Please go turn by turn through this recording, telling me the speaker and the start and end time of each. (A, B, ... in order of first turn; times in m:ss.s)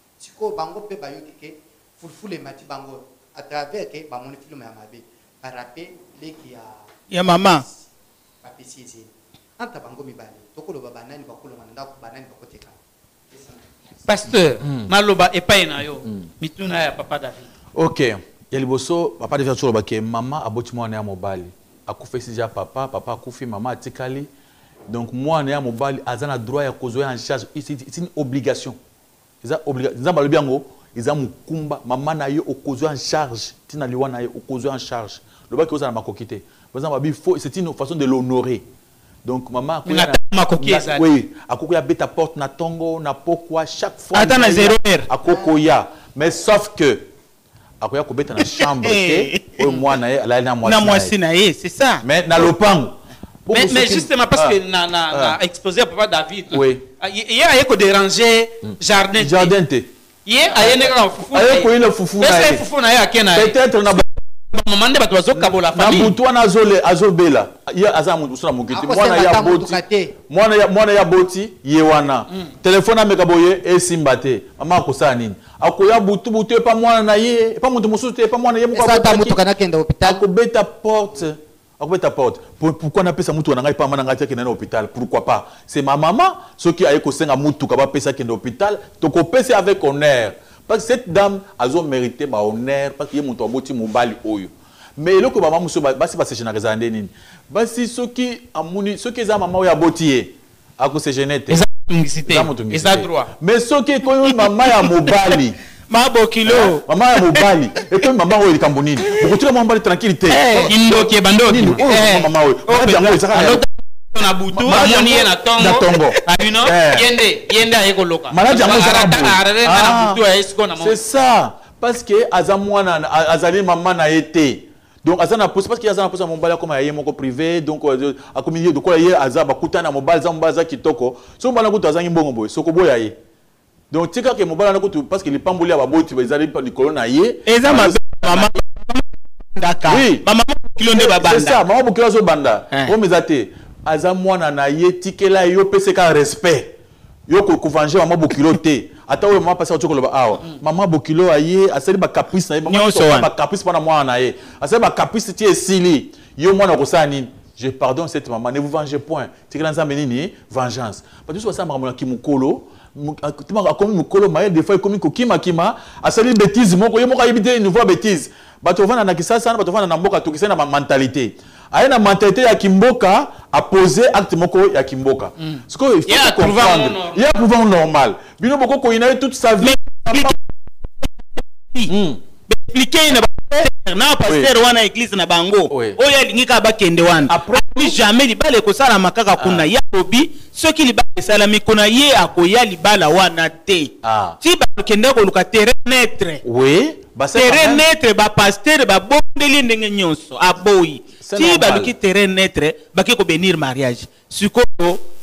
0:00.2-0:06.8 A
0:07.1-0:07.6 B
0:07.4-0:07.8 A
0:08.4-0:12.8 A
0:13.3-0:13.6 A
0:14.0-0:17.5 C
0:14.6-0:14.9 D
0:17.8-0:24.3 D
0:24.9-0:28.8 D
0:29.4-0:38.6 D
0:39.2-0:47.1 D
0:39.9-0:41.0 C
0:44.1-0:45.1 B
0:47.8-0:51.2 D
0:48.7-0:49.6 B
0:50.6-0:52.0 B
0:52.0-0:54.6 D
0:53.5-0:59.5 C
0:55.1-0:55.4 D
0:56.5-0:56.8 D
0:58.6-0:59.9 D
1:00.3-1:03.6 C
1:00.5-1:02.7 D
1:03.3-1:04.1 D
1:04.5-1:06.2 C
1:05.3-1:19.4 D
1:08.7-1:10.1 A
1:18.7-1:20.2 A
1:20.0-1:41.6 D
1:41.5-1:43.3 C
1:42.3-1:45.6 D
1:45.9-1:47.4 B
1:46.5-1:50.7 D
1:50.3-1:50.8 B
1:50.5-1:51.9 C
1:51.5-1:53.6 D
1:51.8-1:53.1 B
1:53.1-2:01.0 C
1:54.5-1:57.1 D
1:58.3-2:00.2 D
2:00.8-2:13.2 D
2:13.9-2:18.6 D
2:17.5-2:21.6 B
2:19.9-2:20.3 D
2:20.9-2:26.8 D
2:27.3-3:00.4 D
2:32.7-2:33.3 B
2:55.4-2:57.2 C
2:59.6-3:00.4 B
3:01.9-3:02.2 D
3:02.5-3:16.4 B
3:04.3-3:04.5 D
3:05.7-3:06.0 D
3:07.3-3:08.0 D
3:09.4-3:09.7 D
3:14.0-3:14.4 D
3:16.4-3:17.8 D
3:17.4-3:25.0 B
3:21.2-3:21.9 D